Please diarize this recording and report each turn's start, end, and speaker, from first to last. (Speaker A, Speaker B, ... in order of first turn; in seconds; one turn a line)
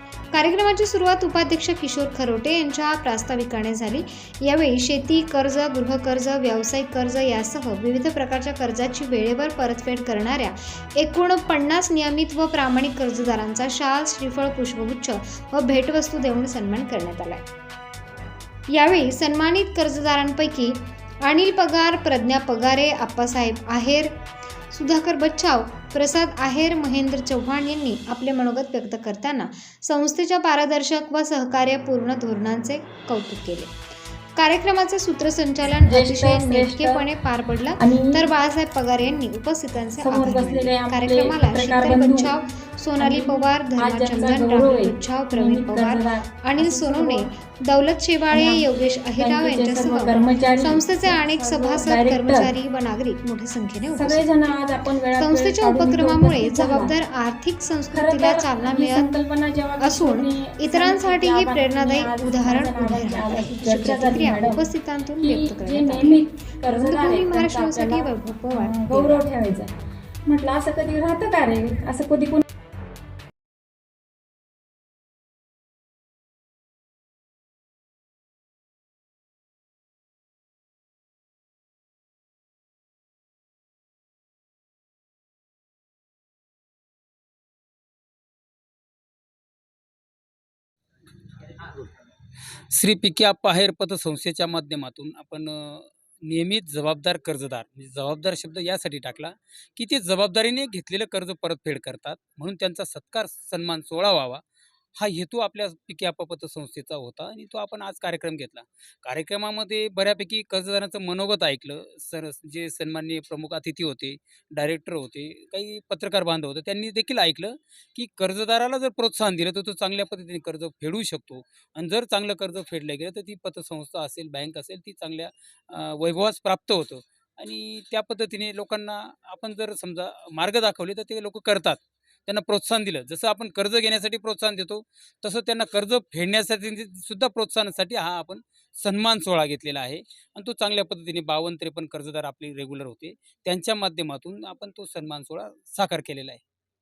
Speaker A: 0.3-17.4
Speaker A: 18.7-24.1
Speaker A: 24.7-33.8
Speaker A: 34.4-54.3
Speaker B: 35.8-37.0
Speaker B: 37.8-38.2
Speaker B: 40.0-42.3
Speaker B: 43.0-47.3
Speaker B: 48.3-52.5
Speaker B: 53.9-57.0
Speaker A: 55.1-59.2
Speaker B: 57.9-64.6
Speaker A: 59.8-69.2
Speaker B: 65.2-69.7
Speaker B: 70.3-72.4
Speaker C: 92.7-104.4
Speaker C: 105.0-146.4